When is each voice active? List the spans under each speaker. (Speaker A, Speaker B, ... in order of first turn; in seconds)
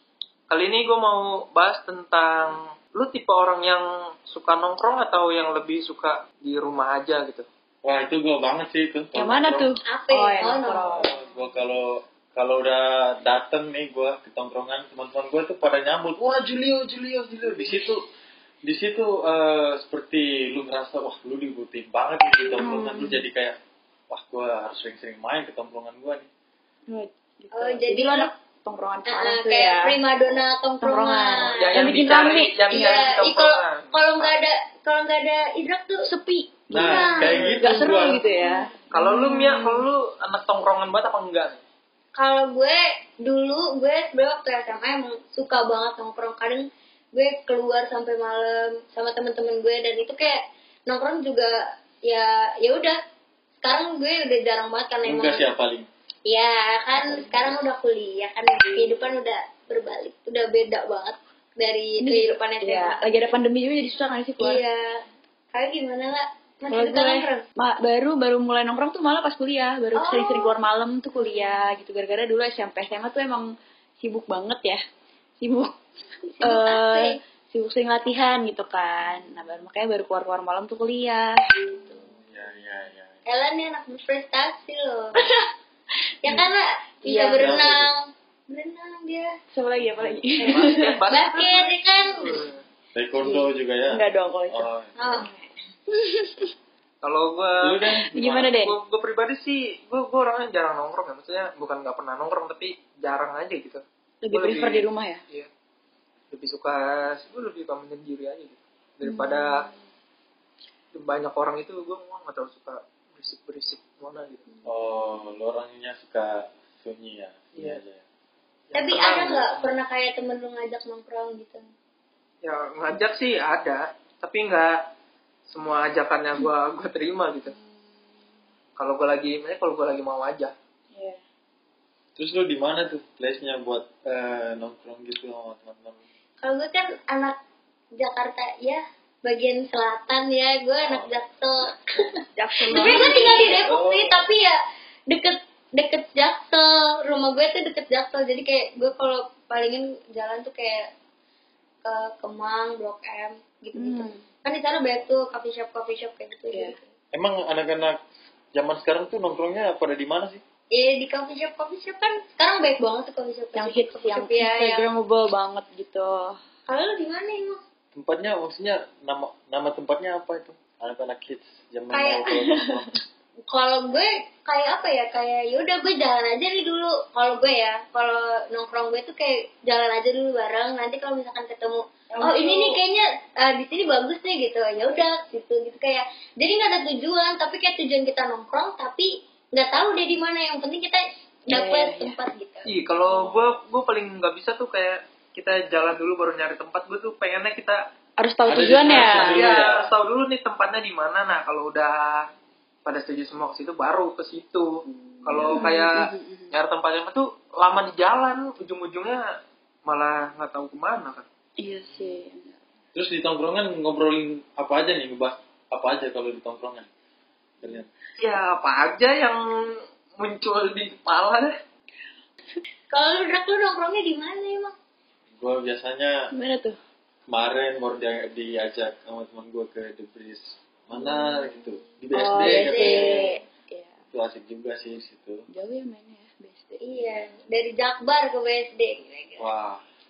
Speaker A: 0.5-7.5, 31.6-34.4, 38.9-41.6, 89.8-92.6, 97.0-97.8, 98.5-105.5, 106.3-109.7, 110.9-114.4, 117.5-117.8, 118.7-119.8, 122.4-124.9, 125.5-127.5, 128.8-130.5, 192.7-197.9, 198.6-202.3, 202.8-209.3, 209.9-211.3, 218.2-219.4, 220.2-221.6
Speaker B: 7.8-9.7, 10.9-18.0, 18.7-23.6, 24.1-26.3, 36.7-38.2, 55.0-55.9, 82.1-83.2, 87.2-87.9, 93.0-95.0, 97.6-98.5, 114.7-118.0, 132.2-136.0, 140.8-141.1, 142.7-144.3, 157.1-158.0, 158.5-160.4, 167.9-172.9, 193.0-193.4, 198.5-199.9, 211.9-212.2, 212.9-216.9, 217.6-217.9, 225.4-226.2, 227.3-233.2, 234.1-235.4, 239.4-239.8
Speaker C: 9.2-11.1, 22.6-23.2, 26.9-30.0, 30.8-33.1, 36.1-39.8, 57.0-57.6, 58.8-59.1, 62.0-64.6, 66.7-73.5, 74.0-74.8, 75.4-75.7, 76.4-82.1, 85.2-85.5, 87.0-87.6, 89.5-91.0, 93.2-96.5, 98.1-98.8, 104.2-105.2, 109.0-109.7, 130.9-131.2, 142.4-143.6, 153.8-154.2, 163.6-166.3, 172.4-172.9, 182.1-182.8, 191.5-192.2, 198.2-199.4, 204.9-206.5, 211.6-212.6, 226.3-226.8, 232.2-234.0, 235.5-237.1
Speaker D: 9.9-11.0, 27.5-28.3, 29.1-31.9, 32.7-36.1, 36.7-38.5, 42.1-50.4, 50.9-51.5, 52.1-53.0, 53.6-55.5, 56.3-63.1, 64.4-64.9, 65.5-67.4, 70.0-70.6, 71.2-71.8, 76.3-77.2, 83.3-85.2, 86.2-89.3, 90.5-92.4, 95.0-95.3, 118.7-121.7, 136.4-137.4, 138.0-142.1, 142.7-144.6, 145.1-150.9, 151.8-156.9, 160.7-164.9, 166.7-167.6, 171.9-172.3, 173.5-192.7, 222.9-224.7, 230.9-231.7, 232.3-233.4, 236.8-239.5